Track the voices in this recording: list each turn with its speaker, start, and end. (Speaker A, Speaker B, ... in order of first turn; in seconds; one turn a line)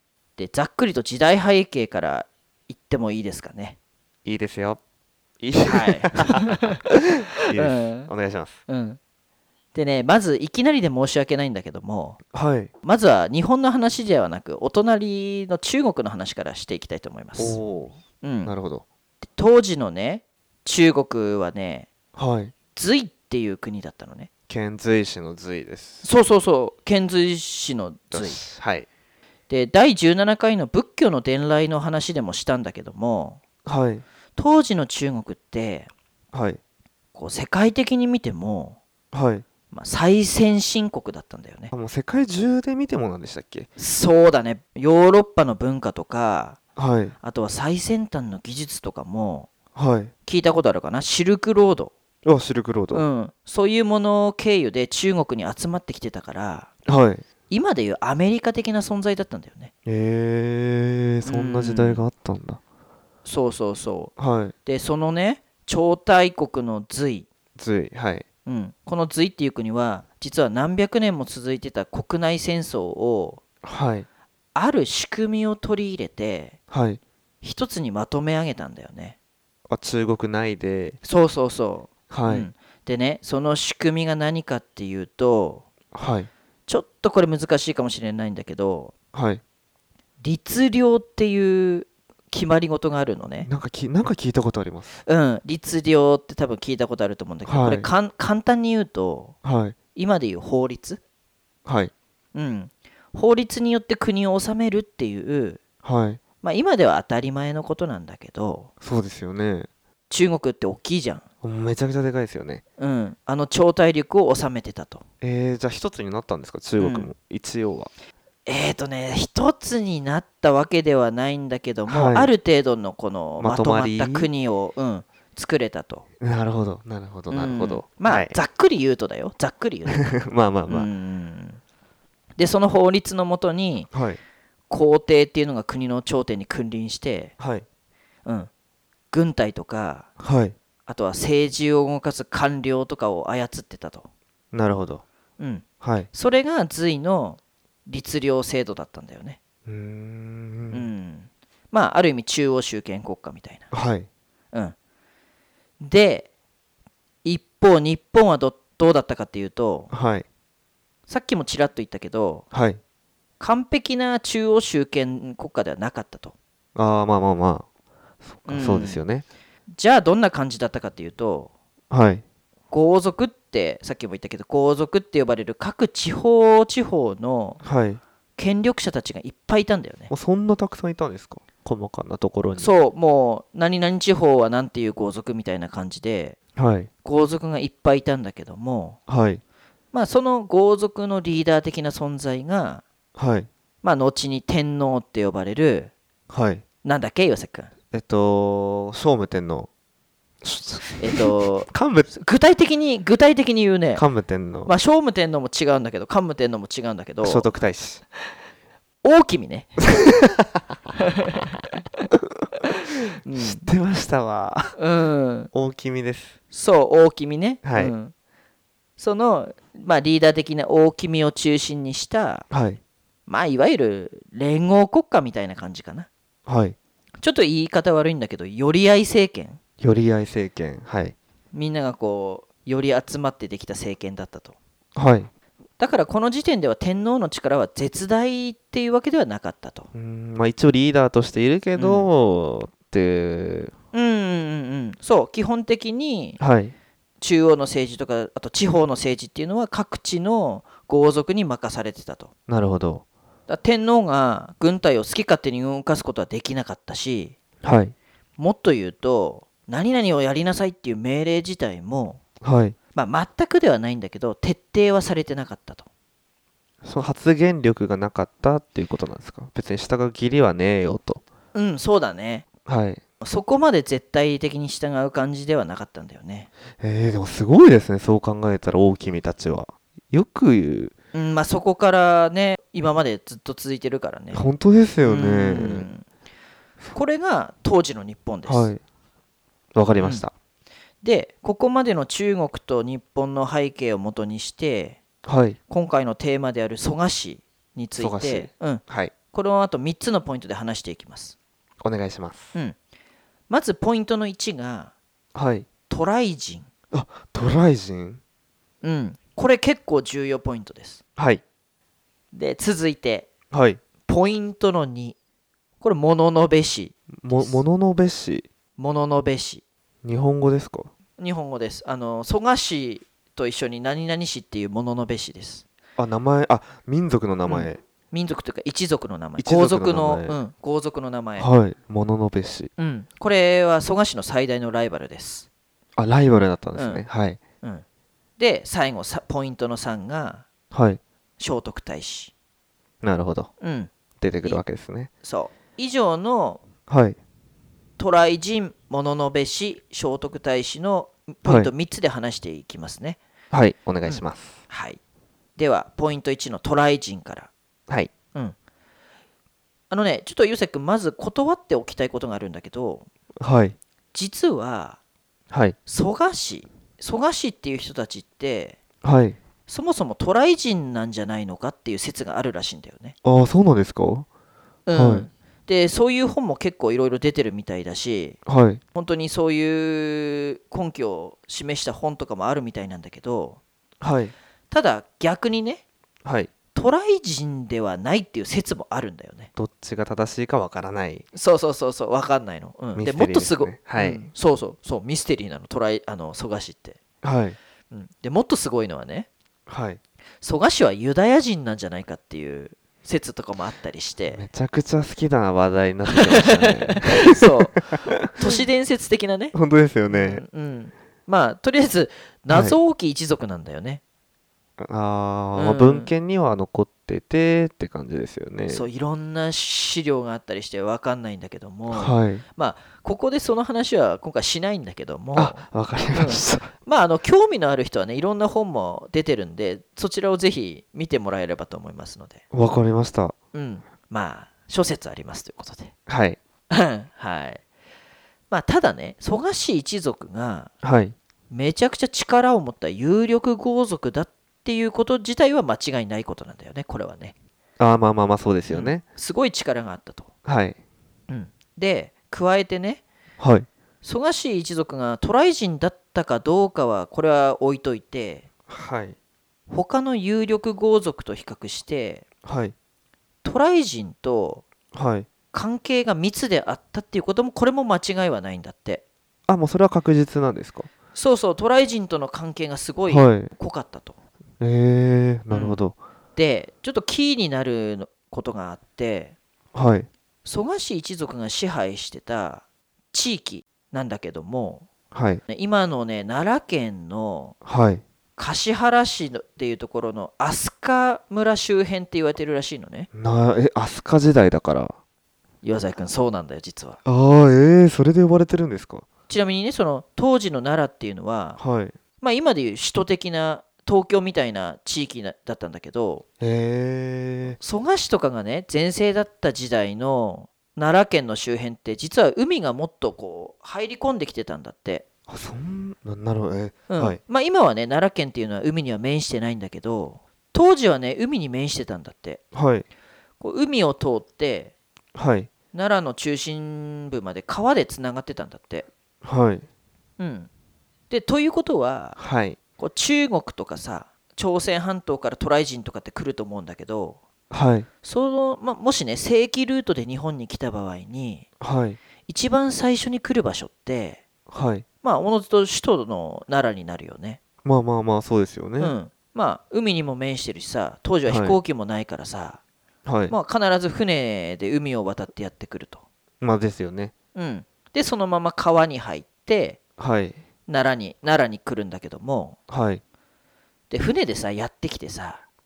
Speaker A: 0.4-3.8
Speaker B: 4.2-4.8
Speaker B: 5.4-8.6
Speaker A: 5.7-6.8
Speaker A: 7.5-8.1
Speaker A: 8.7-9.0
Speaker A: 9.7-12.2
Speaker B: 12.3-12.7
Speaker A: 12.8-17.6
Speaker B: 17.4-18.8
Speaker A: 18.2-18.5
Speaker A: 19.4-21.9
Speaker B: 22.1-22.5
Speaker A: 22.7-24.3
Speaker B: 24.5-26.0
Speaker A: 26.0-28.4
Speaker B: 28.1-28.9
Speaker A: 29.5-33.4
Speaker B: 33.6-34.0
Speaker A: 34.4-35.9
Speaker B: 36.3-36.6
Speaker A: 37.1-38.8
Speaker B: 39.1-39.4
Speaker A: 39.7-41.7
Speaker B: 41.7-43.7
Speaker A: 43.8-46.6
Speaker B: 46.8-47.1
Speaker A: 47.2-49.5
Speaker B: 49.7-50.1
Speaker A: 50.2-51.9
Speaker B: 52.2-53.0
Speaker A: 52.9-56.7
Speaker B: 56.8-57.2
Speaker A: 57.5-59.7
Speaker B: 59.9-62.6
Speaker A: 61.2-62.0
Speaker A: 63.2-64.1
Speaker B: 64.2-64.5
Speaker A: 64.7-67.3
Speaker B: 67.5-68.2
Speaker A: 68.5-73.4
Speaker B: 73.6-74.1
Speaker A: 74.5-76.6
Speaker B: 76.7-77.0
Speaker A: 77.4-79.2
Speaker B: 79.7-81.0
Speaker A: 81.0-85.7
Speaker B: 82.1-82.5
Speaker B: 85.9-86.3
Speaker A: 86.7-88.9
Speaker B: 89.1-89.4
Speaker A: 90.2-93.5
Speaker B: 93.4-95.0
Speaker A: 95.0-99.3
Speaker B: 97.4-97.9
Speaker B: 99.4-99.8
Speaker A: 99.9-101.0
Speaker B: 101.6-101.9
Speaker A: 102.3-105.6
Speaker B: 105.8-106.2
Speaker A: 106.4-108.7
Speaker B: 108.8-109.7
Speaker A: 110.1-111.2
Speaker B: 111.4-112.6
Speaker A: 112.8-115.0
Speaker B: 115.2-117.9
Speaker A: 116.8-117.1
Speaker A: 118.5-126.0
Speaker B: 121.9-122.3
Speaker B: 123.4-124.3
Speaker B: 126.2-128.3
Speaker A: 127.3-130.1
Speaker B: 129.9-130.9
Speaker A: 130.7-131.6
Speaker A: 132.4-133.9
Speaker B: 133.9-134.2
Speaker A: 134.7-137.3
Speaker B: 137.4-137.6
Speaker A: 138.2-138.5
Speaker A: 139.1-140.1
Speaker B: 140.2-140.5
Speaker A: 140.8-144.1
Speaker B: 144.5-145.0
Speaker A: 145.4-149.4
Speaker B: 145.8-146.1
Speaker B: 149.7-150.9
Speaker A: 150.7-153.7
Speaker B: 153.7-154.1
Speaker A: 155.8-156.3
Speaker A: 157.2-159.9
Speaker B: 159.9-160.2
Speaker A: 161.1-162.4
Speaker B: 162.5-162.8
Speaker A: 163.4-166.3
Speaker B: 166.7-167.7
Speaker B: 168.2-169.2
Speaker A: 168.5-169.0
Speaker A: 169.7-171.5
Speaker B: 171.9-172.2
Speaker A: 172.7-177.6
Speaker B: 177.6-178.0
Speaker A: 178.4-180.1
Speaker B: 180.1-182.7
Speaker A: 182.6-186.4
Speaker B: 186.6-186.9
Speaker A: 187.0-189.0
Speaker B: 189.1-189.4
Speaker A: 189.9-192.8
Speaker B: 193.2-193.5
Speaker A: 193.8-195.9
Speaker B: 196.3-196.6
Speaker A: 196.8-197.7
Speaker B: 197.9-199.7
Speaker B: 200.4-202.1
Speaker A: 201.0-204.0
Speaker B: 203.9-204.7
Speaker A: 204.7-207.5
Speaker B: 207.2-208.0
Speaker A: 209.0-209.9
Speaker B: 210.0-210.4
Speaker A: 211.3-212.0
Speaker A: 213.2-213.7
Speaker B: 213.3-214.8
Speaker A: 214.8-215.5
Speaker B: 215.5-216.3
Speaker A: 216.5-218.1
Speaker B: 217.6-217.9
Speaker A: 219.0-222.5
Speaker B: 222.5-222.8
Speaker A: 223.3-226.1
Speaker B: 226.4-226.8
Speaker A: 227.2-229.6
Speaker B: 229.8-231.1
Speaker A: 231.5-234.6
Speaker B: 234.9-235.3
Speaker A: 235.8-239.9
Speaker B: 239.9-243.7
Speaker A: 241.8-242.1
Speaker A: 243.9-246.4
Speaker B: 246.4-246.7
Speaker A: 247.2-252.3
Speaker B: 252.5-253.0
Speaker A: 253.5-257.4
Speaker B: 257.6-257.9
Speaker A: 258.4-262.2
Speaker B: 262.4-262.8
Speaker A: 262.9-265.9
Speaker B: 266.8-271.2
Speaker A: 271.5-272.5
Speaker B: 272.6-273.0
Speaker A: 273.2-276.5
Speaker B: 276.8-280.9
Speaker A: 281.1-284.5
Speaker B: 284.3-285.9
Speaker A: 285.0-286.0
Speaker A: 286.9-288.7
Speaker B: 288.5-288.8
Speaker B: 289.7-290.3
Speaker A: 290.0-290.2
Speaker A: 291.0-295.0
Speaker B: 295.2-295.6
Speaker A: 295.7-301.3
Speaker B: 298.0-299.1
Speaker B: 301.8-302.5
Speaker A: 303.5-304.9
Speaker B: 305.3-305.7
Speaker A: 305.9-306.7
Speaker B: 306.9-308.2
Speaker A: 308.8-311.0
Speaker B: 311.1-311.4
Speaker A: 312.3-313.3
Speaker B: 313.5-313.8
Speaker A: 314.1-315.1
Speaker A: 315.8-317.6
Speaker B: 317.1-318.5
Speaker A: 318.8-319.6
Speaker B: 320.0-320.9
Speaker A: 321.2-325.6
Speaker B: 326.0-327.8
Speaker A: 327.4-331.5
Speaker B: 329.4-330.4
Speaker B: 331.4-332.7
Speaker A: 332.8-335.5
Speaker B: 335.9-337.4
Speaker A: 336.8-337.0
Speaker A: 338.4-340.4
Speaker B: 340.7-341.0
Speaker A: 341.4-342.3
Speaker B: 343.0-343.5
Speaker A: 343.6-343.9
Speaker B: 344.2-345.1
Speaker A: 345.2-346.6
Speaker B: 346.9-347.2
Speaker A: 348.0-353.2
Speaker B: 351.4-351.7
Speaker B: 353.5-354.6
Speaker A: 354.1-355.0
Speaker A: 355.6-357.5
Speaker A: 359.9-363.1
Speaker B: 363.4-363.8
Speaker A: 364.1-365.0
Speaker B: 365.5-365.8
Speaker A: 365.9-368.8
Speaker B: 369.0-369.4
Speaker A: 369.7-373.1
Speaker B: 373.2-374.3
Speaker A: 374.9-378.4
Speaker B: 374.9-375.3
Speaker B: 378.4-378.8
Speaker A: 378.9-383.6
Speaker B: 384.0-384.3
Speaker A: 384.7-385.8
Speaker B: 386.2-386.5
Speaker A: 386.7-389.5
Speaker B: 389.6-391.2
Speaker A: 391.3-397.0
Speaker B: 392.9-394.3
Speaker B: 397.2-397.6
Speaker A: 397.9-399.3
Speaker B: 399.7-400.0
Speaker A: 400.4-404.4
Speaker B: 404.3-408.3
Speaker A: 406.1-409.5
Speaker B: 409.5-410.4
Speaker A: 410.1-414.0
Speaker B: 412.5-412.8
Speaker B: 414.8-418.9
Speaker A: 415.5-416.1
Speaker A: 418.7-432.4
Speaker B: 421.9-422.4
Speaker B: 425.3-426.7
Speaker B: 432.5-433.3
Speaker A: 433.5-435.9
Speaker B: 436.1-436.4
Speaker A: 436.7-437.6
Speaker A: 438.5-440.7
Speaker B: 440.8-441.1
Speaker A: 441.5-447.3
Speaker B: 447.8-449.0
Speaker A: 448.7-450.3
Speaker B: 450.4-450.8
Speaker A: 451.3-453.0
Speaker B: 453.4-453.7
Speaker A: 454.0-458.5
Speaker B: 458.7-459.1
Speaker A: 459.7-462.2
Speaker B: 462.4-462.7
Speaker A: 463.4-464.6
Speaker B: 464.9-465.3
Speaker A: 465.5-469.0
Speaker B: 469.5-470.9
Speaker A: 471.1-474.1
Speaker B: 473.1-473.5
Speaker B: 474.6-476.0
Speaker A: 475.5-475.8
Speaker A: 476.4-479.4
Speaker B: 479.7-480.1
Speaker A: 480.4-484.9
Speaker B: 485.1-485.4
Speaker A: 485.5-487.5
Speaker B: 487.6-488.0
Speaker A: 488.4-493.1
Speaker B: 493.1-494.9
Speaker A: 495.6-497.0
Speaker B: 497.0-499.1
Speaker A: 499.3-501.6
Speaker B: 501.6-501.9
Speaker A: 502.2-506.2
Speaker B: 506.4-507.6
Speaker A: 507.6-515.0
Speaker B: 515.3-517.2
Speaker A: 516.9-522.4
Speaker B: 522.5-522.9
Speaker A: 523.4-524.7
Speaker B: 525.1-525.5
Speaker A: 525.7-528.9
Speaker B: 529.2-529.6
Speaker A: 530.2-530.5
Speaker A: 531.1-532.2
Speaker B: 532.2-532.6
Speaker A: 532.8-537.2
Speaker B: 537.5-537.9
Speaker A: 538.0-541.5
Speaker B: 541.6-542.0
Speaker A: 542.3-544.2
Speaker B: 544.5-544.8
Speaker A: 545.0-547.4
Speaker B: 547.6-548.9
Speaker A: 548.8-552.6
Speaker B: 551.3-551.6
Speaker B: 553.0-553.3
Speaker A: 553.3-556.0
Speaker B: 556.4-557.1
Speaker A: 557.3-559.8
Speaker B: 560.0-560.4
Speaker A: 560.7-562.6
Speaker B: 562.7-563.0
Speaker A: 563.9-565.4